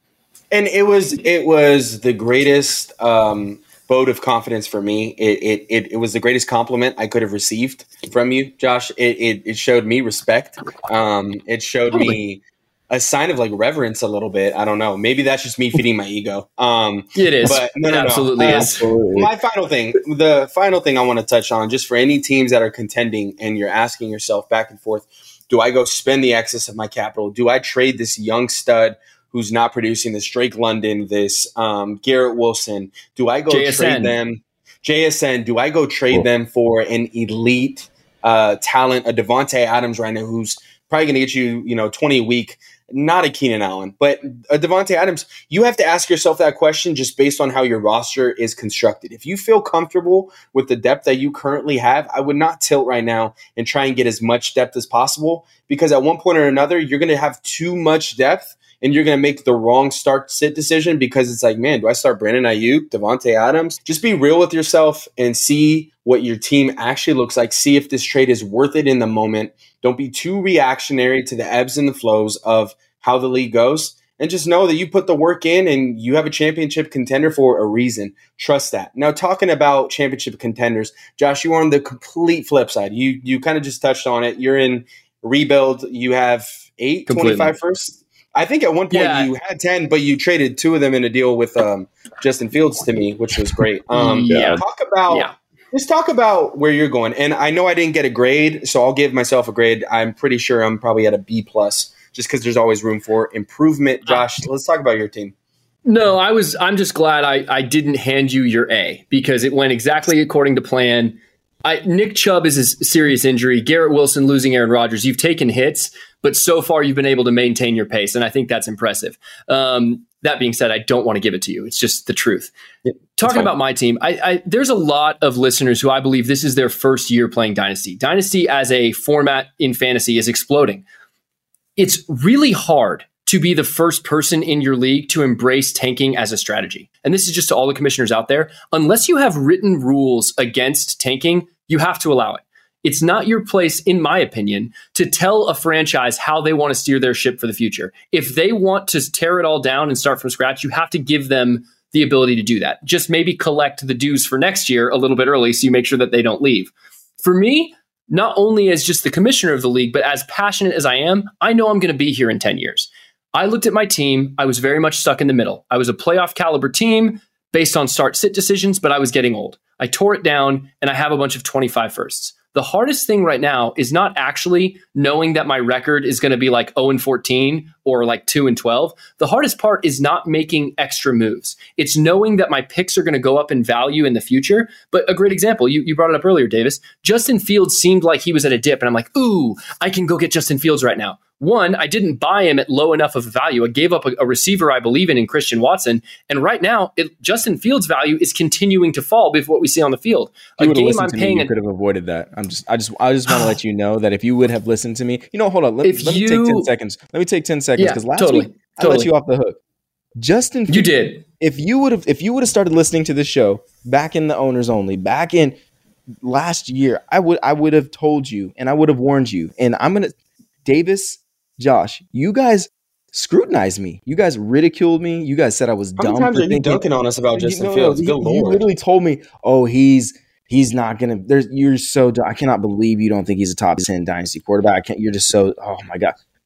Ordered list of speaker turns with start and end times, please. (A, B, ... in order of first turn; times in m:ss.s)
0:00.5-1:45.3 A
0:17.2-0:18.9 B
0:18.4-0:19.3 C
0:33.5-0:34.2 B
1:27.1-1:27.5 B
1:28.9-1:29.3 B
1:33.9-1:35.3 B
1:45.9-2:02.5 B
2:02.9-2:03.5 A
2:03.2-2:10.8 B
2:11.8-3:21.5 B
3:20.6-3:29.6 C
3:25.8-3:26.7 B
3:27.8-3:29.1 B
3:30.2-3:35.6 C
3:30.7-3:31.2 B
3:36.2-3:46.8 C
3:46.0-3:48.6 A
3:47.4-3:56.2 C